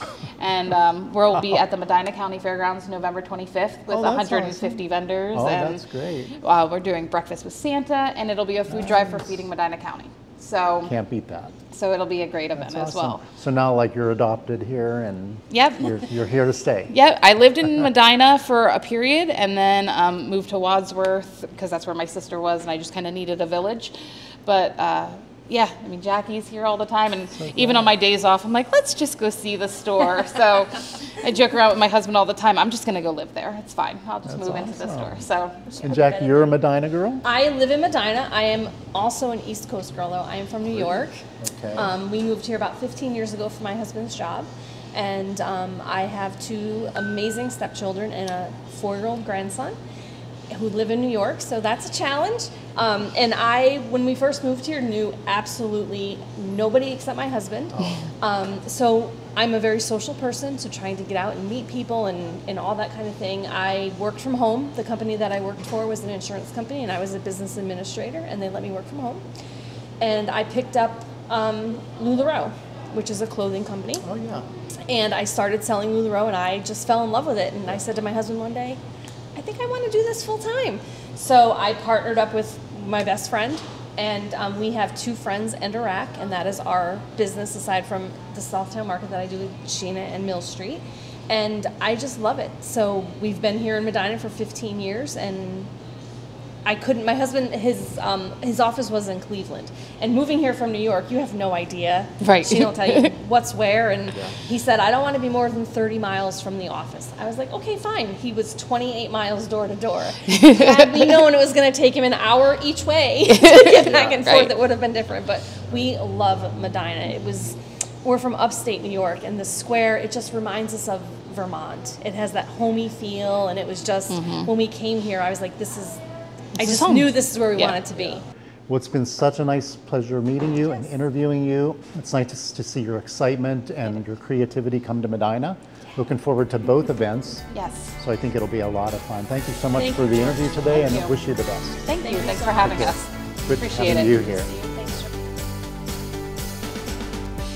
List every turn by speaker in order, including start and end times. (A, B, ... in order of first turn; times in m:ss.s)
0:00.4-0:05.8 A
0:03.9-0:06.4 B
0:06.4-0:10.9 A
0:08.7-0:09.4 B
0:10.8-0:11.6 B
0:11.7-0:13.2 A
0:12.5-0:16.9 B
0:15.5-0:16.0 A
0:16.9-0:23.9 A
0:24.4-0:35.7 A
0:27.3-0:27.9 B
0:34.2-0:35.2 B
0:35.7-0:36.5 C
0:35.8-0:37.2 B
0:37.2-0:41.2 C
0:40.7-0:41.9 B
0:41.7-0:49.8 C
0:50.5-1:09.2 C
0:57.7-0:58.1 B
1:10.0-1:14.0 C
1:14.0-1:14.4 B
1:14.9-1:18.8 C
1:19.3-1:35.7 C
1:36.6-2:06.0 C
1:42.2-1:43.1 A
1:50.3-1:51.0 A
1:53.3-1:54.5 A
2:04.1-2:04.5 A
2:06.6-2:07.8 A
2:06.6-2:08.2 C
2:08.7-2:22.0 B
2:17.5-2:18.0 A
2:19.7-2:20.7 C
2:20.7-2:21.1 A
2:21.8-2:24.4 A
2:21.9-2:22.7 C
2:22.6-2:22.9 B
2:23.5-2:24.5 B